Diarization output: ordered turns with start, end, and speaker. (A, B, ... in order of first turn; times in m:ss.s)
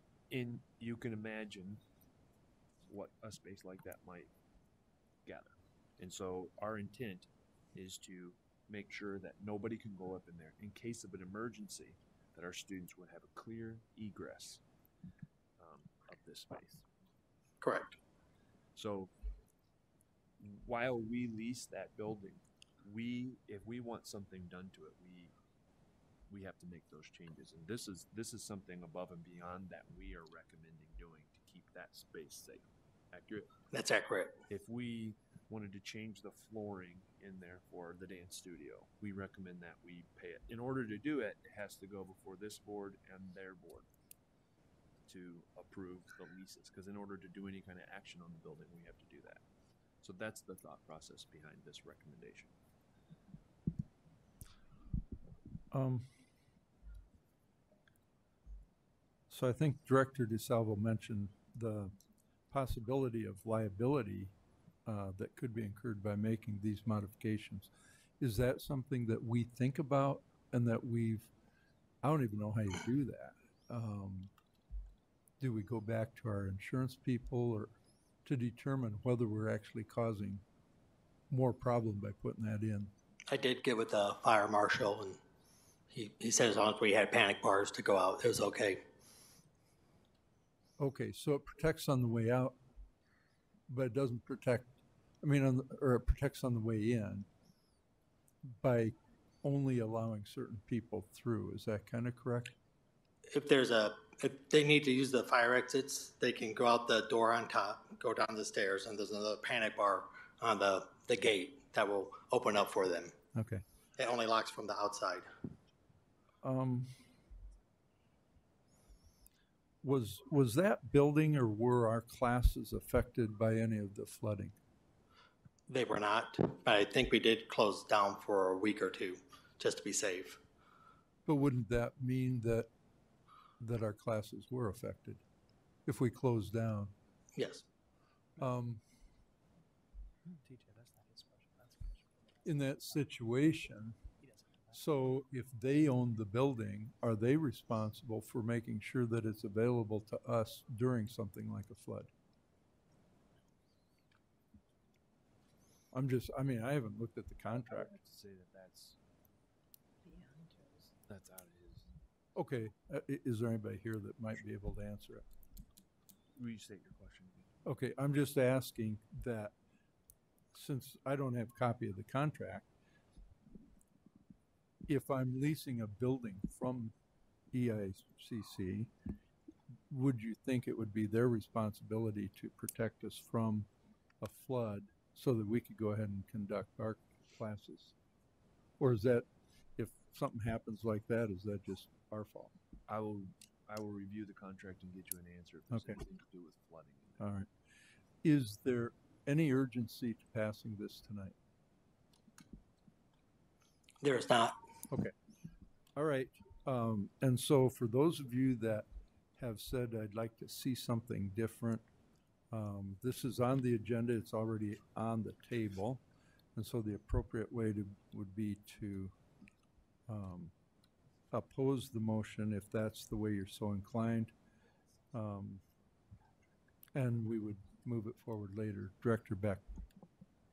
0:00.3-0:01.8 A
0:02.9-0:04.3 A
0:05.2-0:14.6 A
0:15.6-0:16.8 A
0:17.6-0:18.0 B
0:18.7-0:19.1 A
0:20.4-0:25.3 A
0:26.3-0:33.5 A
0:33.7-0:34.4 B
0:34.5-0:43.9 A
0:45.0-0:49.4 A
0:50.0-0:52.5 A
0:55.7-0:56.1 C
0:59.3-1:01.9 C
1:02.5-1:04.3 C
1:04.8-1:11.3 C
1:12.0-1:14.3 C
1:15.4-1:20.4 C
1:21.3-1:22.9 C
1:23.3-1:25.2 B
1:25.9-1:28.8 B
1:30.8-1:32.6 C
1:33.7-1:34.7 C
1:35.2-1:37.3 C
1:38.4-1:42.5 C
1:43.3-1:53.2 B
1:53.3-1:53.6 C
1:54.0-1:55.3 B
1:56.4-1:57.1 C
1:59.8-2:04.5 C
2:05.7-2:10.4 B
2:11.2-2:12.7 C
2:13.6-2:15.2 C
2:15.8-2:16.9 C
2:17.3-2:17.6 B
2:18.4-2:18.8 C
2:22.4-2:24.0 C
2:24.7-2:32.1 C
2:35.9-2:37.9 C
2:37.6-2:39.0 A
2:41.1-2:41.9 A
2:42.4-2:45.2 C
2:46.3-2:47.5 A
2:47.6-2:49.5 C
2:50.5-2:52.6 C
2:54.9-2:56.9 C
2:57.5-2:58.9 C
2:59.9-3:03.7 C
3:04.2-3:07.9 C
3:08.8-3:12.5 C
3:12.9-3:17.3 A
3:15.7-3:16.0 C
3:17.2-3:17.5 C
3:18.2-3:21.3 C
3:24.0-3:24.6 B
3:24.9-3:25.1 C
3:26.0-3:31.8 C
3:32.5-3:36.0 C
3:36.5-3:39.1 C
3:40.1-3:40.5 C
3:41.3-3:44.3 C
3:45.1-3:45.6 C
3:46.9-3:49.6 C